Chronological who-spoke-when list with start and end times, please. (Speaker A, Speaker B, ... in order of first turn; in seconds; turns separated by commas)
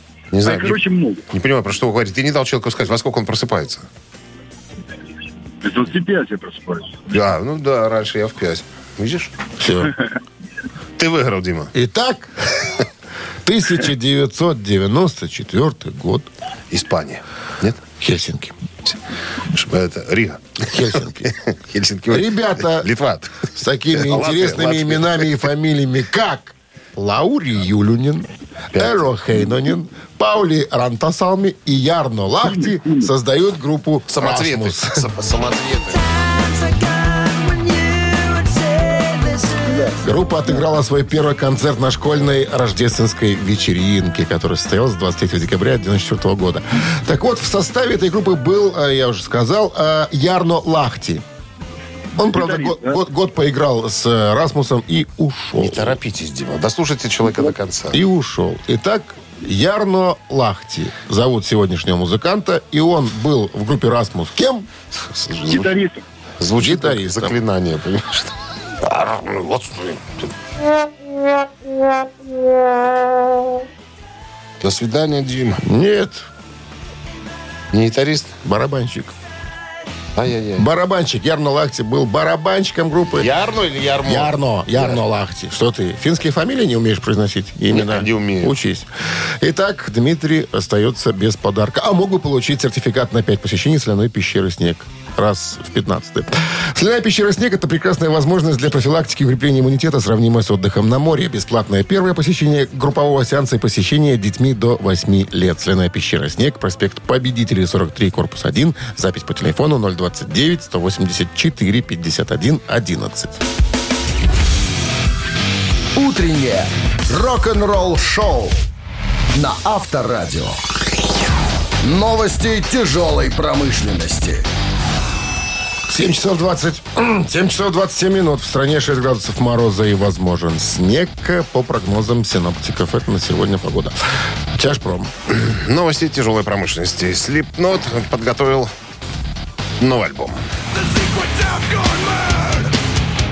Speaker A: 0.3-3.8, Speaker B: 0.4-1.2, Speaker B: 5.6-7.0, Speaker A: 7.1-9.3, Speaker C: 9.6-9.9, Speaker A: 11.0-11.7, Speaker C: 11.7-12.7, Speaker C: 13.4-16.3, Speaker A: 16.7-17.8, Speaker C: 18.0-18.6, Speaker A: 19.5-25.4, Speaker C: 20.7-21.3, Speaker C: 22.1-22.9, Speaker C: 23.5-35.1, Speaker A: 28.7-29.1, Speaker B: 32.6-33.0, Speaker A: 34.1-36.1, Speaker D: 37.2-39.5, Speaker B: 39.5-40.0, Speaker C: 40.0-51.2, Speaker C: 52.1-56.0, Speaker B: 52.4-52.9, Speaker A: 55.6-58.0, Speaker C: 57.9-64.7, Speaker A: 65.1-65.7, Speaker B: 65.5-66.0, Speaker A: 66.4-68.3, Speaker C: 66.6-67.4, Speaker A: 68.8-70.2, Speaker A: 74.6-75.6, Speaker C: 75.6-76.2, Speaker A: 77.7-78.3, Speaker C: 78.4-79.1, Speaker A: 80.2-80.7, Speaker C: 80.6-83.3, Speaker A: 83.2-85.0, Speaker C: 84.0-113.4, Speaker A: 87.7-88.5, Speaker D: 116.0-118.6, Speaker D: 119.3-120.6, Speaker D: 121.8-124.5, Speaker C: 125.9-133.9, Speaker C: 134.5-135.1, Speaker A: 135.3-138.7, Speaker A: 139.8-140.4, Speaker A: 141.4-142.6